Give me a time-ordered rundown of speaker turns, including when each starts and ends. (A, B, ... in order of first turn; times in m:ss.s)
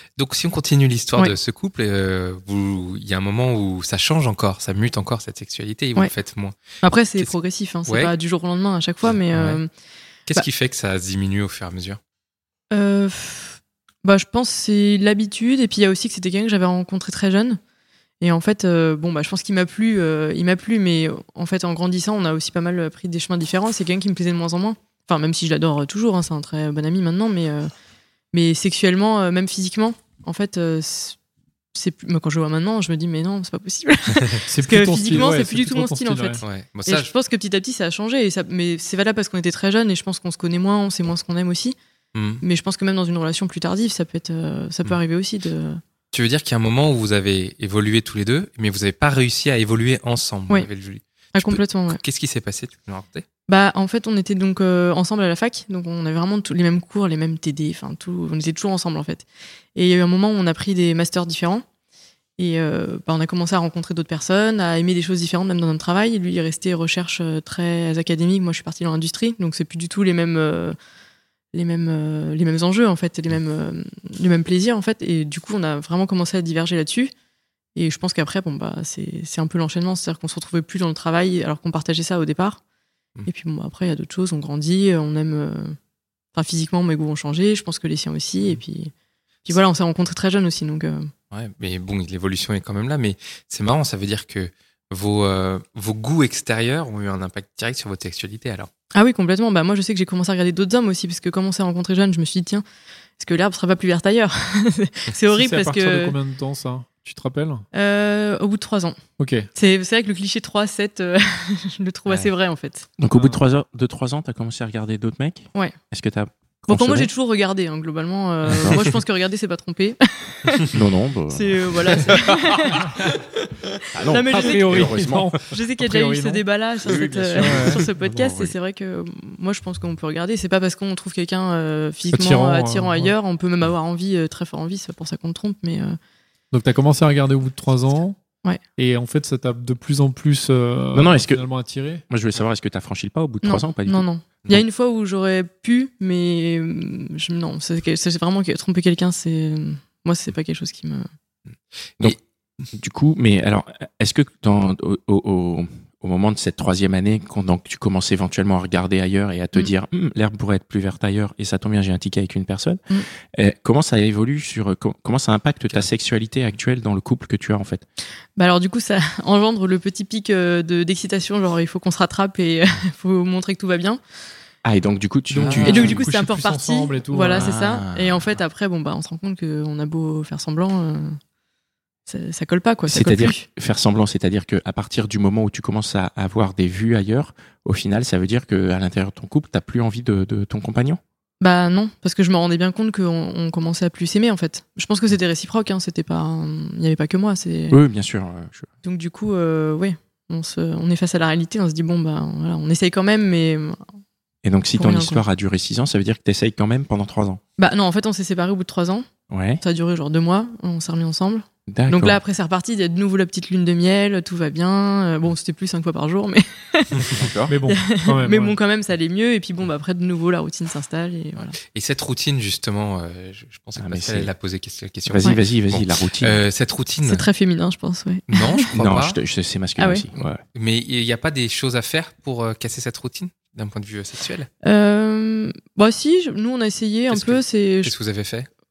0:00.2-0:06.5 A
0:06.8-0:09.7 B
0:07.9-0:08.1 A
0:09.0-0:09.6 A
0:10.3-0:12.0 A
0:12.7-0:17.6 B
0:18.2-0:27.7 B
0:28.3-0:31.2 B
0:31.7-0:41.8 B
0:34.5-0:36.4 C
0:36.4-0:37.1 A
0:42.1-0:42.4 A
0:42.4-0:45.8 B
0:46.1-0:53.2 A
0:51.3-0:52.0 B
0:53.5-1:01.6 B
1:02.4-1:10.7 B
1:11.5-1:17.1 B
1:17.8-1:22.6 B
1:23.2-1:25.8 B
1:26.3-1:28.9 B
1:29.4-1:31.1 B
1:31.3-1:38.7 A
1:38.9-1:42.6 B
1:43.2-1:46.2 B
1:45.3-1:47.6 C
1:47.7-1:49.0 B
1:49.2-1:49.5 C
1:49.5-1:52.9 B
1:53.0-1:57.1 D
1:56.7-2:00.7 B
1:58.5-1:58.8 D
2:00.7-2:02.2 D
2:01.3-2:03.0 B
2:03.9-2:05.4 D
2:04.0-2:16.0 B
2:04.2-2:06.4 C
2:06.8-2:08.5 D
2:07.0-2:07.9 C
2:12.1-2:13.1 C
2:16.5-2:18.2 C
2:18.8-2:22.0 C
2:20.9-2:21.4 D
2:22.1-2:24.1 D
2:23.4-2:31.1 B
2:32.7-2:47.8 D
2:48.4-2:54.0 B
2:54.6-2:56.0 D
2:55.3-2:57.5 C
2:55.4-2:55.8 A
2:55.6-3:01.2 B
2:57.3-2:58.2 D
3:02.1-3:03.4 B
3:02.9-3:11.0 D
3:11.4-3:17.8 B
3:17.7-3:18.7 D
3:18.8-3:23.8 B
3:24.4-3:27.4 D
3:24.7-3:25.2 B
3:27.6-3:29.0 B
3:29.3-3:29.6 D
3:29.6-3:37.1 B
3:31.7-3:32.2 D
3:37.1-3:37.5 D
3:37.5-3:38.6 C
3:37.6-3:41.6 B
3:41.7-3:47.2 A
3:43.8-3:44.3 D
3:45.0-3:46.4 D
3:47.0-3:48.7 B
3:48.3-3:49.2 A
3:48.7-3:50.4 D
3:49.8-3:50.0 B
3:50.5-3:54.5 A
3:54.6-3:57.9 B
3:57.1-3:58.5 A